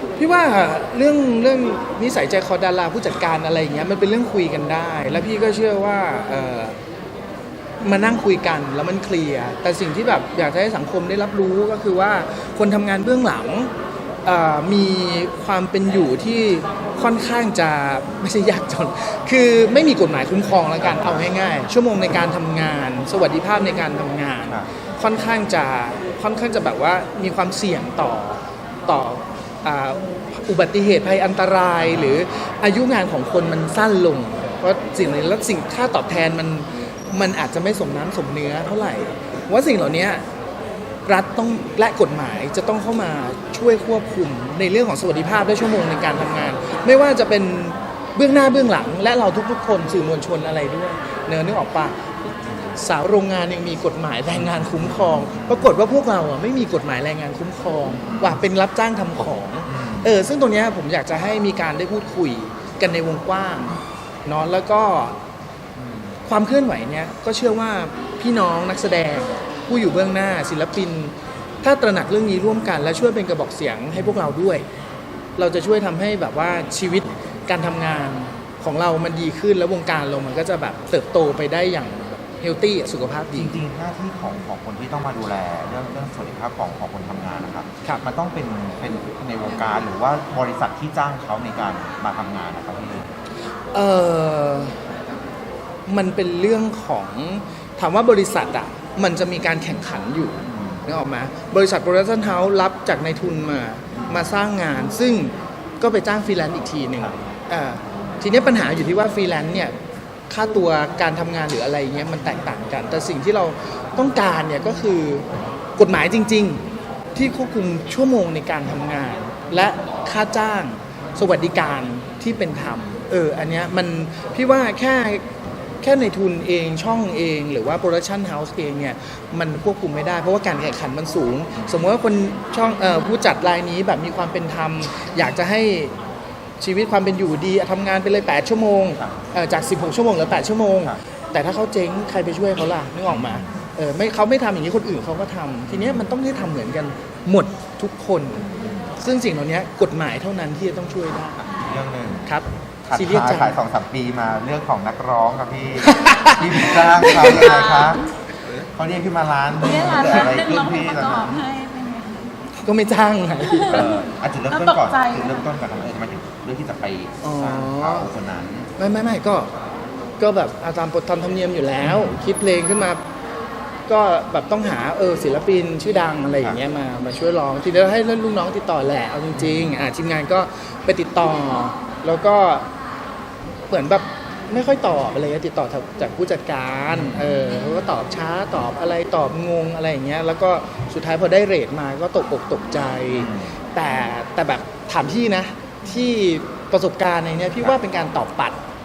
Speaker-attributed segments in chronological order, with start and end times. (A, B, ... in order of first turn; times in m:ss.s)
0:00.2-0:06.8 A
0:07.8-0:13.7 A
0:14.2-0:40.2 A
0:20.8-0:21.3 B
0:24.4-0:24.7 B
0:31.8-0:32.2 B
0:41.1-1:05.2 A
0:54.4-0:55.7 B
0:57.9-0:58.4 B
0:59.7-1:00.2 B
1:06.2-1:14.7 A
1:15.4-1:23.6 A
1:23.3-1:33.1 B
1:33.7-1:34.8 A
1:35.9-1:49.7 A
1:40.4-1:40.9 B
1:43.9-1:44.3 B
1:50.3-1:56.6 A
1:57.2-2:05.2 A
2:05.8-2:16.0 A
2:16.6-2:31.4 A
2:19.0-2:19.2 B
2:23.1-2:23.6 B
2:25.7-2:26.0 B
2:28.6-2:28.9 B
2:31.5-2:32.3 B
2:32.3-2:33.6 A
2:32.9-2:38.0 B
2:35.8-2:37.5 A
2:37.3-2:38.0 C
2:38.7-2:41.4 B
2:39.6-2:42.3 C
2:42.6-2:43.9 A
2:43.6-2:45.5 C
2:43.7-2:48.7 B
2:47.2-2:48.1 A
2:48.8-2:49.5 A
2:50.2-2:53.0 A
2:53.9-3:02.7 A
2:59.3-2:59.8 B
3:03.7-3:18.6 A
3:06.9-3:07.3 B
3:13.1-3:13.5 B